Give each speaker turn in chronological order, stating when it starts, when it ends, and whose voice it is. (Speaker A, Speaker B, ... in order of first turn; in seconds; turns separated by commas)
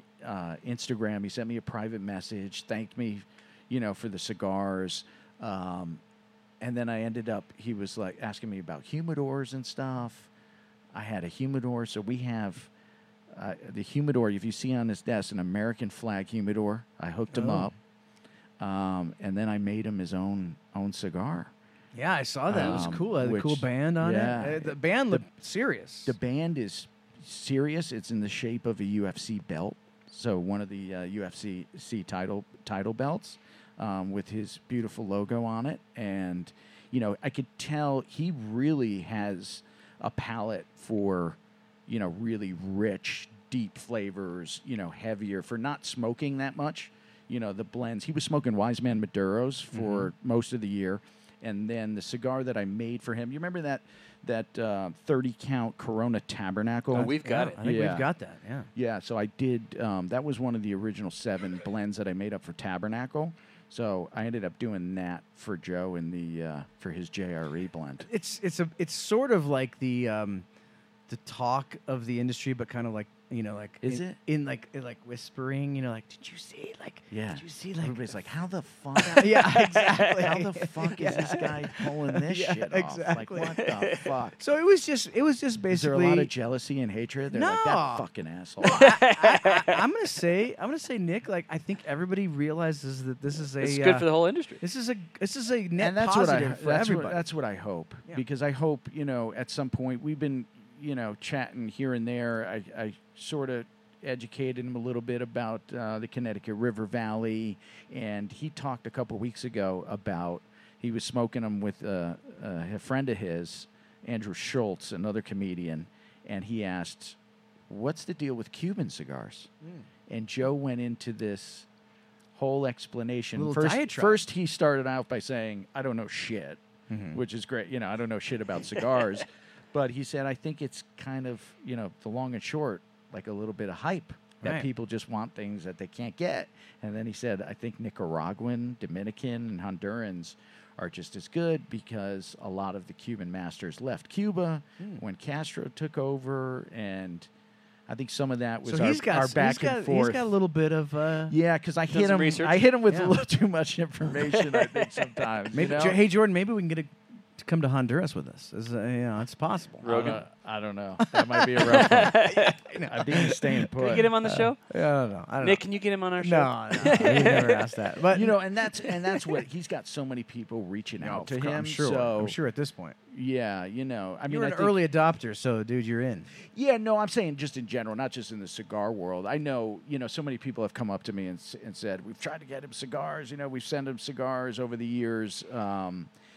Speaker A: 0.2-6.0, Speaker A: 6.6-10.3, Speaker A: 10.9-12.7, Speaker A: 13.3-17.7, Speaker B: 17.3-17.7, Speaker A: 18.6-21.5, Speaker B: 21.9-26.1, Speaker A: 22.5-25.2, Speaker A: 26.0-58.1, Speaker B: 49.7-50.1, Speaker B: 56.9-58.7, Speaker C: 56.9-57.6, Speaker A: 58.8-68.1, Speaker B: 68.1-70.5, Speaker B: 71.1-78.0, Speaker A: 73.8-74.2, Speaker A: 77.1-84.4, Speaker B: 79.2-83.6, Speaker C: 83.7-84.0, Speaker B: 84.4-86.3, Speaker A: 85.7-88.9, Speaker B: 87.3-88.0, Speaker B: 88.6-94.1, Speaker C: 88.8-89.8, Speaker C: 93.6-94.6, Speaker B: 94.6-97.2, Speaker A: 95.8-117.2, Speaker A: 117.7-119.5, Speaker A: 120.1-121.7, Speaker A: 122.3-126.6, Speaker B: 123.3-124.2, Speaker B: 126.9-127.2, Speaker A: 127.1-147.3, Speaker B: 134.4-134.7, Speaker A: 147.9-150.3, Speaker B: 148.7-151.4, Speaker A: 151.3-156.0, Speaker C: 151.9-152.7, Speaker B: 152.9-153.2, Speaker C: 154.3-155.1, Speaker B: 155.5-160.2, Speaker A: 159.8-162.3, Speaker C: 159.8-160.2, Speaker B: 161.0-163.7, Speaker C: 161.7-162.6, Speaker A: 162.9-164.2, Speaker C: 163.7-164.6, Speaker B: 164.2-165.6, Speaker C: 165.4-167.7, Speaker B: 166.2-168.3, Speaker A: 168.1-172.4, Speaker B: 171.0-173.0, Speaker A: 173.1-174.8, Speaker B: 174.3-176.3, Speaker A: 176.4-186.1